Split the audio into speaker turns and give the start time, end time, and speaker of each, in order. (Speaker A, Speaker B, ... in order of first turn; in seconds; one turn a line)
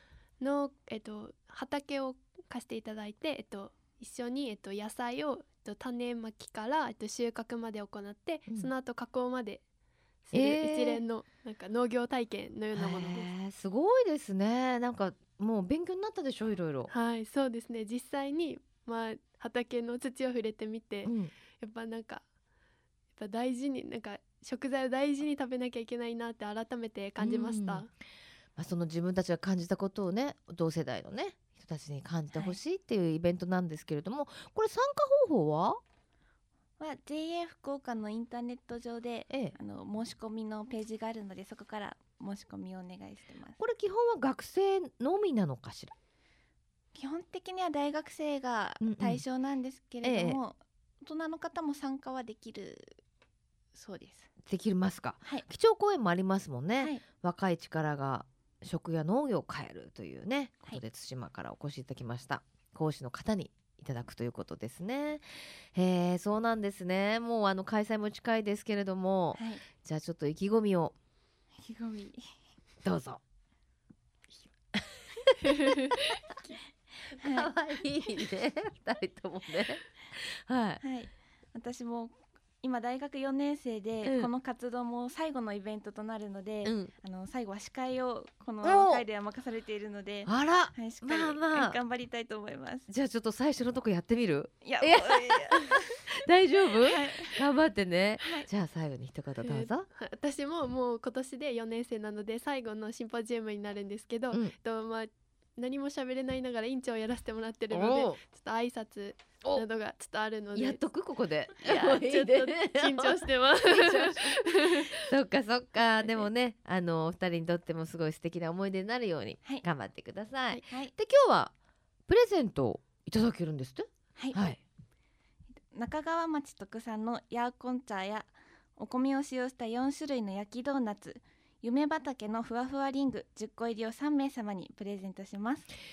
Speaker A: 0.4-9.6
Speaker A: 10.3-13.3
Speaker B: 10.3-11.0
Speaker B: 12.7-16.9
Speaker A: 16.9-22.2
Speaker B: 21.1-21.3
Speaker A: 23.2-27.9
Speaker B: 27.2-27.9
Speaker B: 28.6-35.8
Speaker C: 36.8-43.6
Speaker B: 39.3-39.5
Speaker B: 43.6-45.9
Speaker C: 47.0-53.0
Speaker B: 48.8-49.2
Speaker B: 50.0-50.4
Speaker C: 53.8-54.3
Speaker B: 54.5-71.0
Speaker C: 69.4-69.6
Speaker C: 71.6-72.3
Speaker B: 72.8-73.2
Speaker B: 74.8-76.2
Speaker C: 77.1-77.5
Speaker B: 77.2-80.8
Speaker C: 80.8-92.9
Speaker B: 84.0-84.3
Speaker B: 86.6-86.9
Speaker B: 88.6-89.0
Speaker B: 90.3-91.8
Speaker B: 92.9-99.9
Speaker C: 94.6-96.1
Speaker C: 96.8-97.4
Speaker C: 98.2-98.5
Speaker A: 99.4-110.8
Speaker B: 107.7-108.2
Speaker B: 110.5-121.5
Speaker A: 111.6-115.0
Speaker B: 122.1-124.6
Speaker C: 124.2-124.5
Speaker C: 125.7-135.7